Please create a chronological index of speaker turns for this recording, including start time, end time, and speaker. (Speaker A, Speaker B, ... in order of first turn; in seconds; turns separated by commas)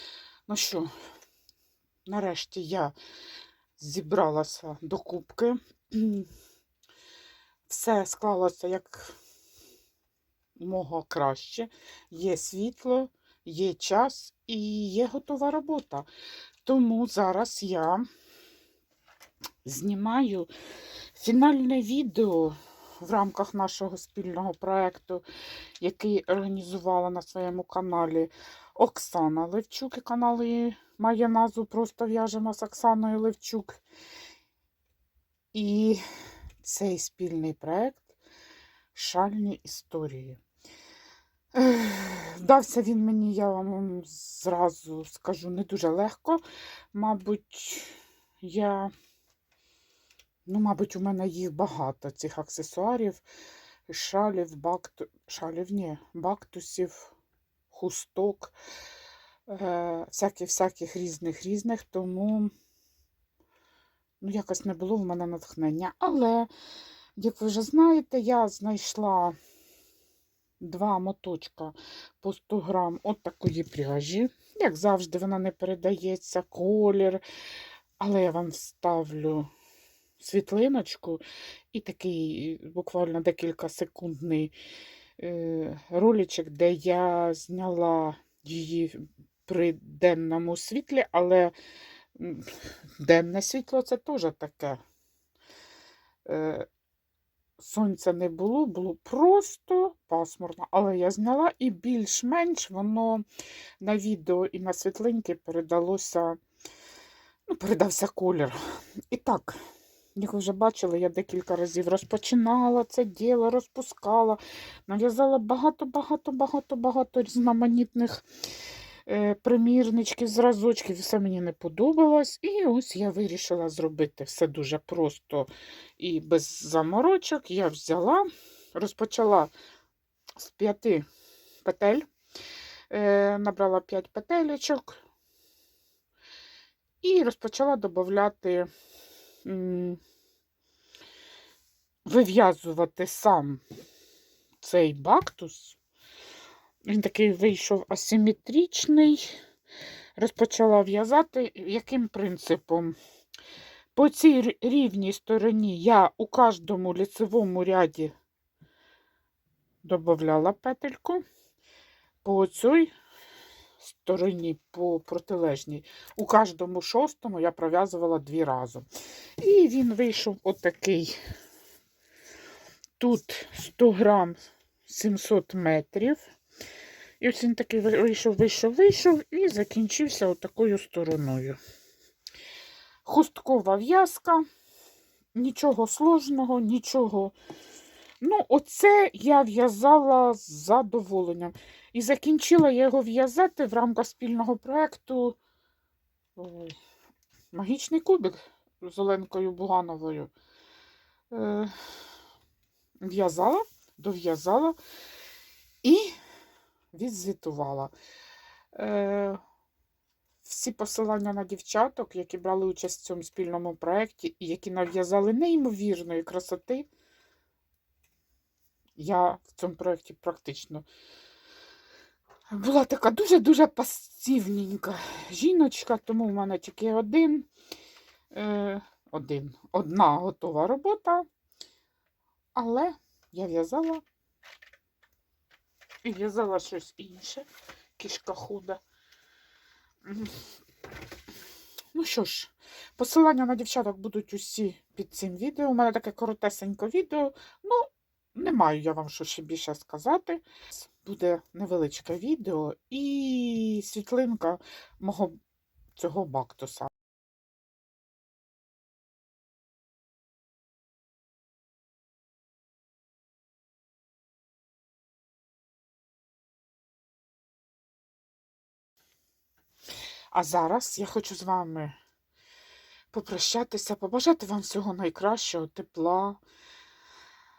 Speaker A: 0.5-0.9, Speaker A: 2.1-2.9, Speaker A: 3.8-6.3, Speaker A: 7.7-9.2, Speaker A: 10.6-16.1, Speaker A: 16.6-18.1, Speaker A: 19.6-20.5, Speaker A: 21.1-25.2, Speaker A: 25.8-33.8, Speaker A: 35.5-36.0, Speaker A: 36.6-38.1, Speaker A: 38.9-40.4, Speaker A: 41.5-46.4, Speaker A: 46.9-48.9, Speaker A: 50.5-53.2, Speaker A: 53.9-57.1, Speaker A: 57.7-58.5, Speaker A: 59.5-62.5, Speaker A: 64.2-66.5, Speaker A: 67.2-69.3, Speaker A: 70.6-77.2, Speaker A: 78.0-79.5, Speaker A: 80.2-81.2, Speaker A: 81.7-84.5, Speaker A: 85.2-91.5, Speaker A: 92.1-94.8, Speaker A: 96.2-96.7, Speaker A: 97.6-103.2, Speaker A: 103.8-106.4, Speaker A: 107.5-108.6, Speaker A: 109.1-109.6, Speaker A: 110.2-118.2, Speaker A: 119.0-129.5, Speaker A: 130.4-131.1, Speaker A: 131.6-132.1, Speaker A: 132.9-135.0, Speaker A: 137.0-138.7, Speaker A: 139.4-140.0, Speaker A: 142.0-143.6, Speaker A: 144.6-145.8, Speaker A: 146.8-149.4, Speaker A: 150.2-152.9, Speaker A: 153.9-158.1, Speaker A: 159.8-161.2, Speaker A: 162.2-162.9, Speaker A: 163.8-168.9, Speaker A: 169.4-171.2, Speaker A: 173.0-176.2, Speaker A: 177.2-181.6, Speaker A: 183.0-184.4, Speaker A: 185.3-187.3, Speaker A: 188.2-195.4, Speaker A: 196.3-196.7, Speaker A: 197.5-200.3, Speaker A: 201.3-201.7, Speaker A: 203.0-204.8, Speaker A: 205.8-206.1, Speaker A: 206.9-207.9, Speaker A: 208.7-209.4, Speaker A: 210.4-216.9, Speaker A: 219.0-220.8, Speaker A: 222.5-227.5, Speaker A: 228.3-231.2, Speaker A: 232.5-234.0, Speaker A: 236.0-237.5, Speaker A: 238.0-238.8, Speaker A: 240.1-240.3, Speaker A: 241.9-255.4, Speaker A: 255.9-256.9, Speaker A: 270.3-271.9, Speaker A: 273.1-276.4